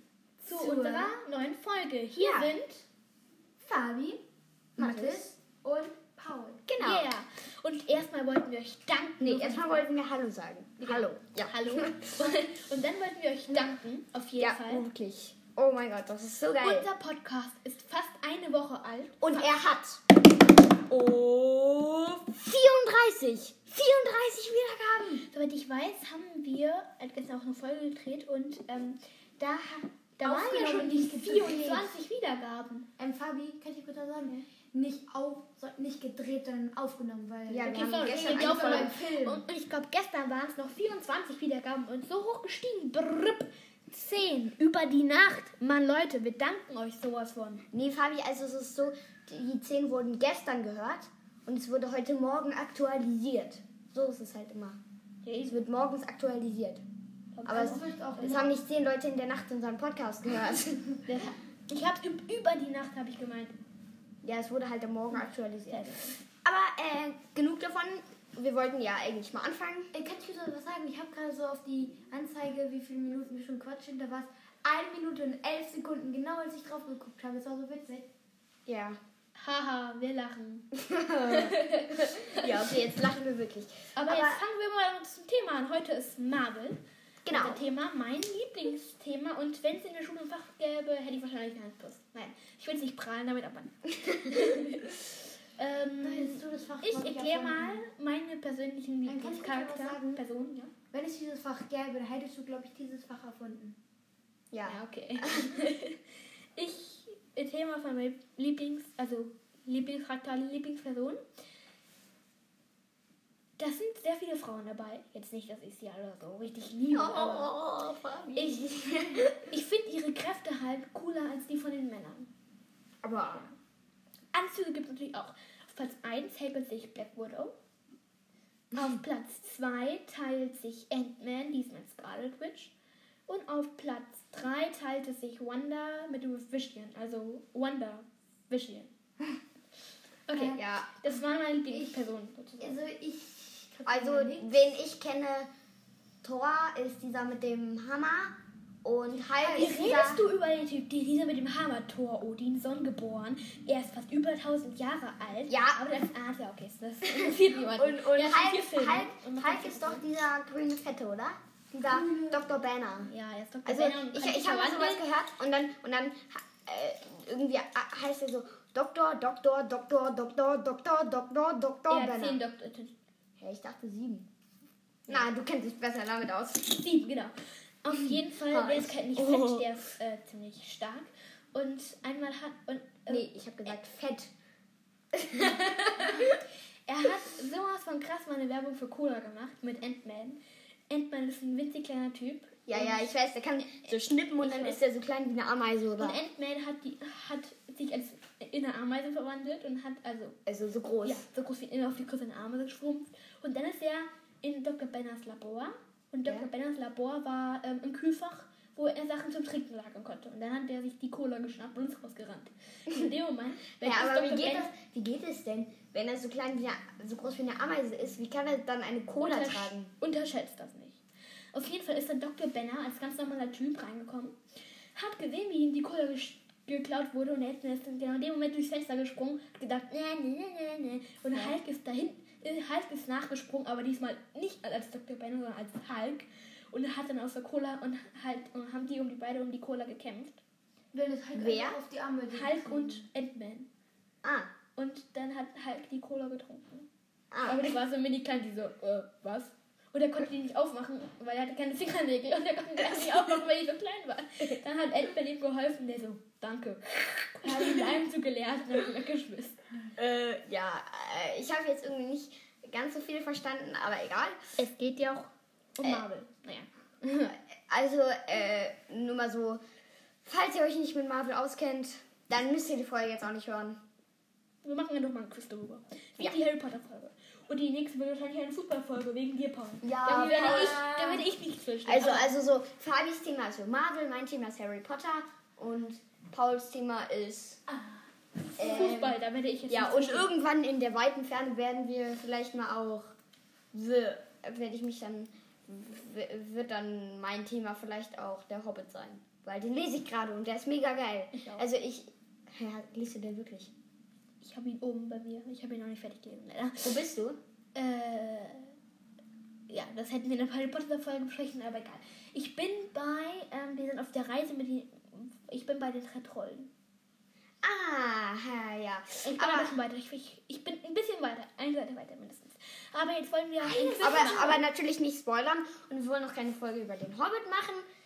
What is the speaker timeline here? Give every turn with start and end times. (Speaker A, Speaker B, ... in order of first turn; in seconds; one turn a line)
Speaker A: 0.4-2.8
Speaker B: 0.5-1.1
Speaker C: 2.2-2.5
Speaker B: 3.6-4.2
Speaker B: 4.8-6.6
Speaker C: 4.8-5.2
Speaker C: 6.7-7.1
Speaker A: 6.8-9.8
Speaker C: 9.2-12.2
Speaker A: 10.8-14.8
Speaker C: 14.4-16.9
Speaker A: 16.6-19.4
Speaker C: 19.2-20.0
Speaker C: 20.9-25.2
Speaker A: 25.3-32.9
Speaker B: 30.2-31.9
Speaker B: 33.0-39.4
Speaker C: 37.5-39.0
Speaker A: 37.6-47.6
Speaker C: 47.7-54.8
Speaker A: 55.2-55.5
Speaker C: 55.4-56.8
Speaker A: 57.3-58.4
Speaker C: 57.4-60.9
Speaker B: 57.5-58.5
Speaker A: 61.0-63.5
Speaker C: 64.2-69.9
Speaker A: 65.7-66.2
Speaker B: 69.9-78.1
Speaker C: 78.7-79.0
Speaker A: 79.3-80.7
Speaker C: 80.7-84.4
Speaker A: 81.2-82.7
Speaker A: 83.9-95.0
Speaker C: 87.2-87.6
Speaker C: 94.1-94.6
Speaker A: 95.5-100.7
Speaker B: 96.0-97.8
Speaker B: 99.0-100.2
Speaker B: 100.9-103.8
Speaker C: 104.5-105.5
Speaker A: 104.6-106.0
Speaker A: 106.5-111.2
Speaker A: 113.6-117.6
Speaker C: 116.9-119.4
Speaker A: 118.3-122.3
Speaker C: 123.0-123.5
Speaker A: 124.3-127.5
Speaker A: 128.7-132.7
Speaker A: 133.3-138.9
Speaker A: 140.3-142.8
Speaker B: 140.3-140.6
Speaker C: 140.5-140.9
Speaker B: 141.7-142.0
Speaker B: 142.6-144.7
Speaker C: 143.8-145.5
Speaker C: 146.2-150.2
Speaker B: 149.4-149.8
Speaker A: 149.6-160.0
Speaker C: 155.5-155.8
Speaker C: 157.1-163.1
Speaker B: 161.8-162.4
Speaker A: 163.1-165.0
Speaker C: 163.7-172.4
Speaker A: 171.9-172.9
Speaker C: 173.4-174.3
Speaker C: 175.1-176.8
Speaker A: 176.7-183.3
Speaker C: 178.5-179.7
Speaker C: 183.1-184.3
Speaker C: 185.1-186.4
Speaker A: 186.0-186.3
Speaker A: 186.9-193.1
Speaker C: 192.7-196.2
Speaker A: 194.4-194.8
Speaker A: 196.0-200.4
Speaker C: 200.4-201.2
Speaker A: 201.0-214.7
Speaker C: 213.8-219.9
Speaker A: 219.2-221.0
Speaker A: 221.5-224.4
Speaker A: 224.9-240.4
Speaker B: 240.9-243.0
Speaker C: 241.3-241.8
Speaker A: 242.3-243.7
Speaker C: 244.2-244.5
Speaker A: 244.8-246.9
Speaker C: 247.3-247.7
Speaker A: 247.4-259.6
Speaker C: 259.9-264.4
Speaker A: 264.6-267.4
Speaker C: 267.7-269.6
Speaker C: 270.2-273.8
Speaker A: 274.6-282.3
Speaker C: 279.8-281.3
Speaker B: 280.1-280.9
Speaker C: 281.8-287.6
Speaker A: 288.4-290.3
Speaker C: 288.6-293.1
Speaker C: 293.7-303.7
Speaker A: 301.3-301.7
Speaker A: 304.4-306.9
Speaker C: 306.8-307.4
Speaker A: 307.7-308.7
Speaker A: 309.7-316.7
Speaker C: 317.6-319.7
Speaker A: 319.2-324.6
Speaker C: 323.6-327.9